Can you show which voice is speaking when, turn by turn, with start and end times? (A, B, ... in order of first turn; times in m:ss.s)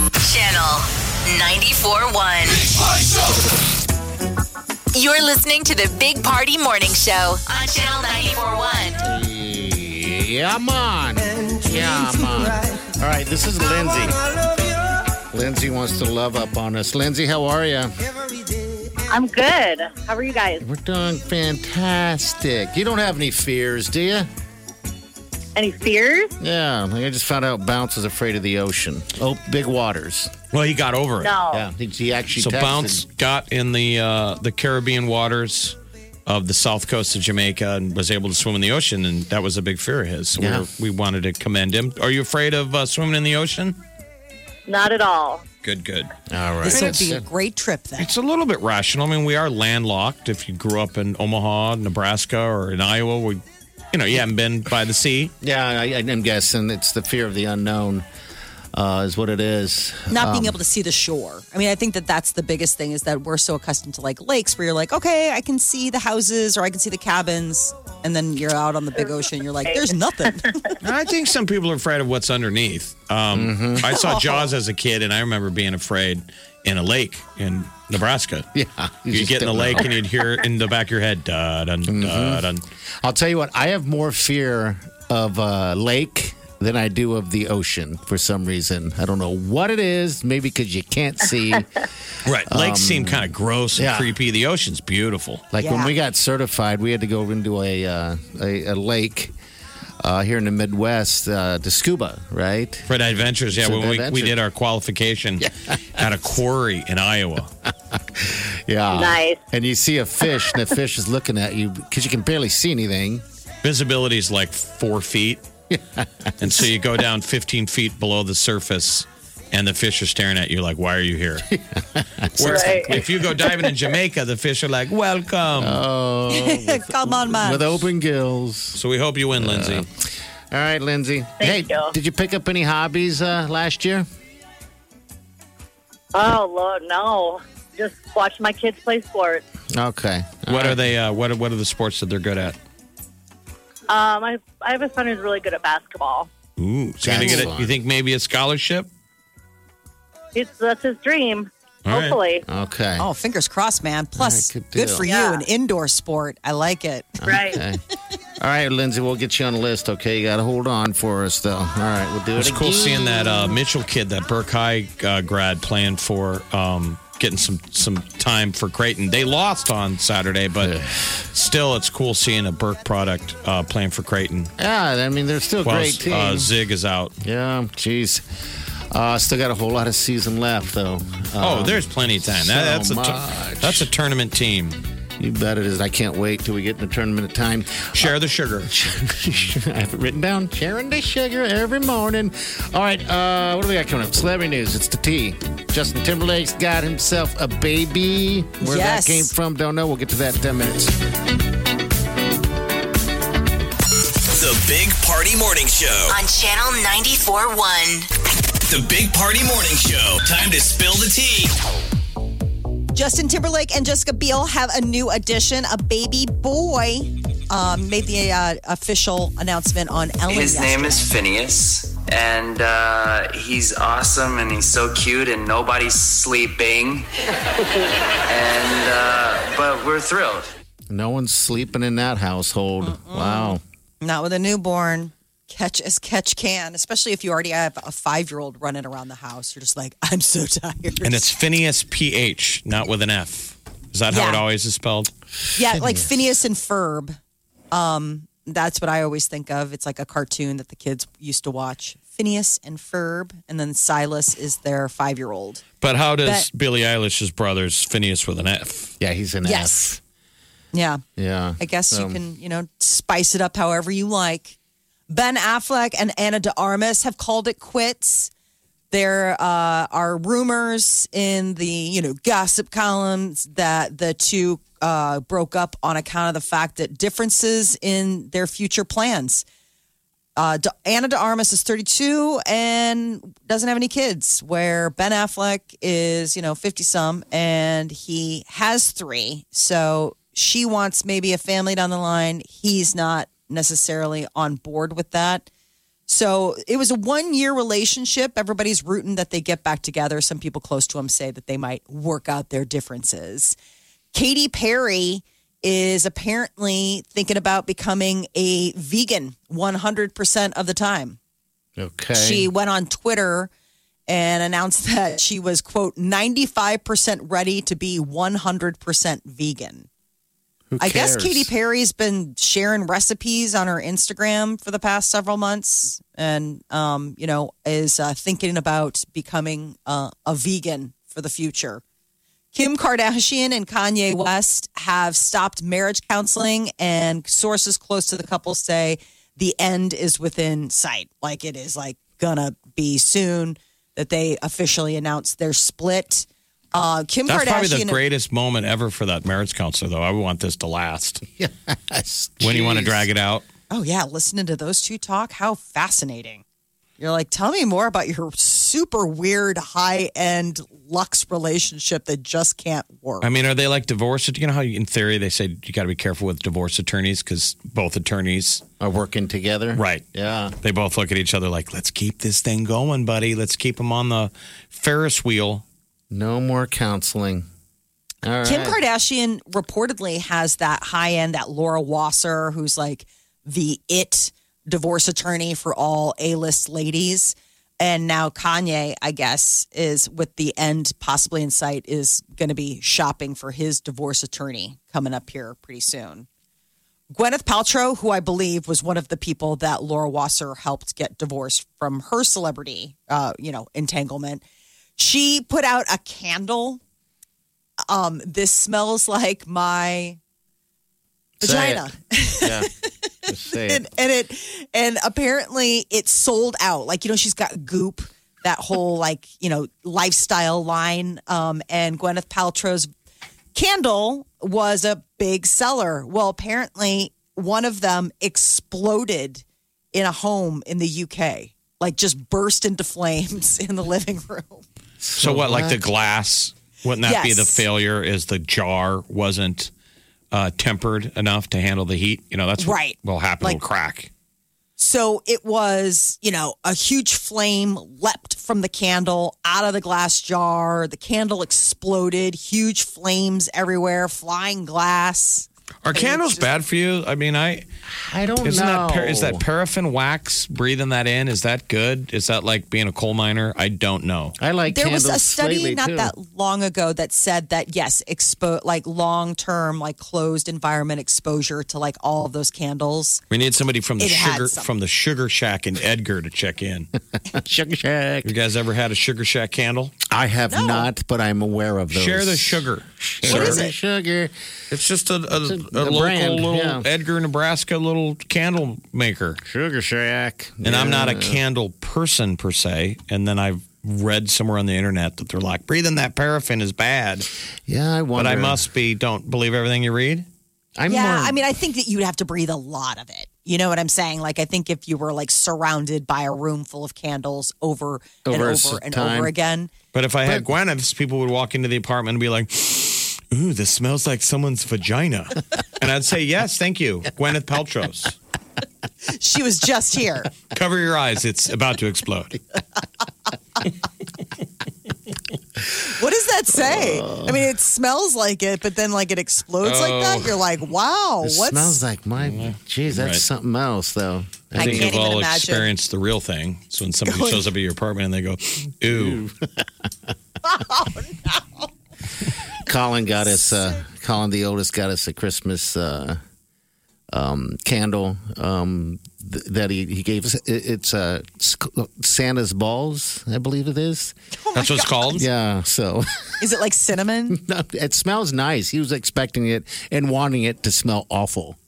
0:00.2-0:02.8 A
0:04.9-0:09.0 A
0:09.0-0:14.2 B
0:15.3-0:18.0 B
0:19.1-0:20.6 C
0:20.6-0:24.3 B
0:25.6-0:26.3 C
0:26.4-0:30.3 B
0:30.5-0:31.4 D
0:31.2-0:31.6 C
0:31.5-0:33.0 B
0:32.4-0:43.8 D
0:40.4-0:40.7 B
0:44.7-0:45.4 C
0:45.6-0:46.1 D
0:46.3-0:47.2 B
0:46.6-0:48.1 E
0:48.0-0:55.3 D
0:55.4-0:58.0 B
0:58.7-1:00.6 B
1:00.1-1:10.6 E
1:09.6-1:10.5 C
1:10.8-1:18.5 D
1:13.3-1:13.8 B
1:13.9-1:14.5 E
1:18.5-1:19.9 B
1:19.1-1:22.6 D
1:21.9-1:22.5 B
1:23.0-1:31.9 B
1:32.2-1:35.5 D
1:32.4-1:34.2 B
1:35.5-1:39.3 B
1:35.6-1:35.9 E
1:40.0-1:42.9 B
1:42.9-1:47.5 D
1:43.6-1:44.4 B
1:45.4-1:46.0 B
1:47.9-1:53.2 B
1:48.9-1:49.4 C
1:53.6-1:55.5 D
1:55.7-1:56.7 B
1:56.4-2:01.5 D
2:01.5-2:03.2 B
2:02.4-2:05.8 D
2:02.4-2:03.0 C
2:05.6-2:08.8 B
2:06.3-2:07.8 E
2:08.8-2:09.9 D
2:09.4-2:14.1 B
2:11.4-2:11.9 C
2:16.1-2:19.4 C
2:19.7-2:20.8 B
2:20.5-2:22.6 D
2:23.9-2:26.3 C
2:26.6-2:28.9 D
2:27.0-2:27.8 B
2:30.4-2:32.4 C
2:31.9-2:32.2 D
2:32.5-2:33.1 B
2:33.0-2:37.2 E
2:34.2-2:35.1 B
2:35.0-2:35.4 C
2:37.2-2:37.6 C
2:37.2-2:37.8 B
2:38.4-2:43.6 B
2:42.4-2:50.8 D
2:50.6-2:51.2 B
2:51.3-2:54.5 D
2:54.6-2:56.5 B
2:55.6-2:57.2 D
2:57.2-2:58.2 B
2:58.9-3:03.9 B
3:01.4-3:04.8 D
3:05.2-3:08.1 B
3:07.9-3:08.7 D
3:08.6-3:20.9 B
3:18.6-3:19.3 E
3:24.3-3:26.2 F
3:26.1-3:28.1 A
3:28.7-3:31.5 F
3:32.9-3:41.1 E
3:40.3-3:47.1 G
3:48.3-3:50.5 G
3:50.9-3:53.6 B
3:52.8-4:01.3 E
4:01.0-4:05.1 D
4:04.1-4:04.4 E
4:05.6-4:07.2 E
4:05.7-4:06.1 B
4:07.7-4:15.6 E
4:15.8-4:18.9 D
4:19.0-4:20.0 B
4:19.4-4:20.0 E
4:20.7-4:21.0 E
4:21.2-4:22.2 B
4:21.6-4:24.6 E
4:25.1-4:28.3 E
4:28.9-4:39.4 E
4:40.4-4:55.5 E
4:56.1-5:03.6 E
5:04.1-5:11.2 E
5:11.8-5:12.5 B
5:12.1-5:13.5 E
5:14.1-5:19.9 E
5:20.7-5:21.5 B
5:20.8-5:31.8 E
5:32.5-5:48.0 E
5:47.3-5:51.2 D
5:51.4-5:53.1 B
5:52.4-5:53.5 D
5:53.7-5:56.4 E
5:57.0-6:03.3 E
6:03.2-6:08.6 D
6:08.8-6:10.6 B
6:09.8-6:10.0 D
6:10.6-6:15.6 D
6:16.1-6:17.5 B
6:18.2-6:18.8 B
6:18.4-6:36.3 E
6:37.1-6:44.4 E
6:45.0-6:46.8 E
6:47.9-6:50.2 E
6:51.4-6:51.9 B
6:51.4-6:52.7 E
6:52.4-6:52.7 B
6:53.3-6:53.8 B
6:53.5-7:02.9 E
7:03.5-7:14.6 E
7:15.0-7:15.8 B
7:15.2-7:19.7 D
7:17.0-7:17.6 E
7:20.3-7:24.1 D
7:22.6-7:23.6 E
7:24.8-7:36.5 E
7:35.8-7:37.7 D
7:37.9-7:39.4 B
7:38.4-7:44.4 D
7:44.4-7:46.1 B
7:44.7-7:53.2 E
7:53.3-7:56.9 D
7:54.0-7:54.7 E
7:57.3-7:58.3 B
7:58.2-8:00.0 D
8:00.1-8:04.3 B
8:00.5-8:00.9 E
8:01.9-8:03.6 D
8:03.3-8:03.7 E
8:04.7-8:09.4 D
8:05.3-8:06.9 B
8:09.4-8:11.4 B
8:10.6-8:17.3 D
8:17.7-8:18.6 B
8:18.2-8:20.3 D
8:20.8-8:21.4 B
8:20.9-8:29.7 E
8:28.2-8:29.3 B
8:29.9-8:38.2 D
8:39.1-8:40.3 E
8:40.5-8:42.4 D
8:45.8-8:51.8 E
8:46.6-8:47.4 B
8:49.6-8:50.4 D
8:51.2-8:54.9 B
8:52.2-8:53.2 D
8:54.6-8:55.7 E
8:54.6-8:59.2 D
8:57.1-8:57.5 E
8:58.9-8:59.6 B
9:00.5-9:01.4 E
9:02.6-9:06.2 B
9:07.1-9:14.2 B
9:14.4-9:15.2 E
9:14.5-9:15.2 D
9:15.1-9:16.4 B
9:16.4-9:17.4 E
9:17.3-9:21.6 B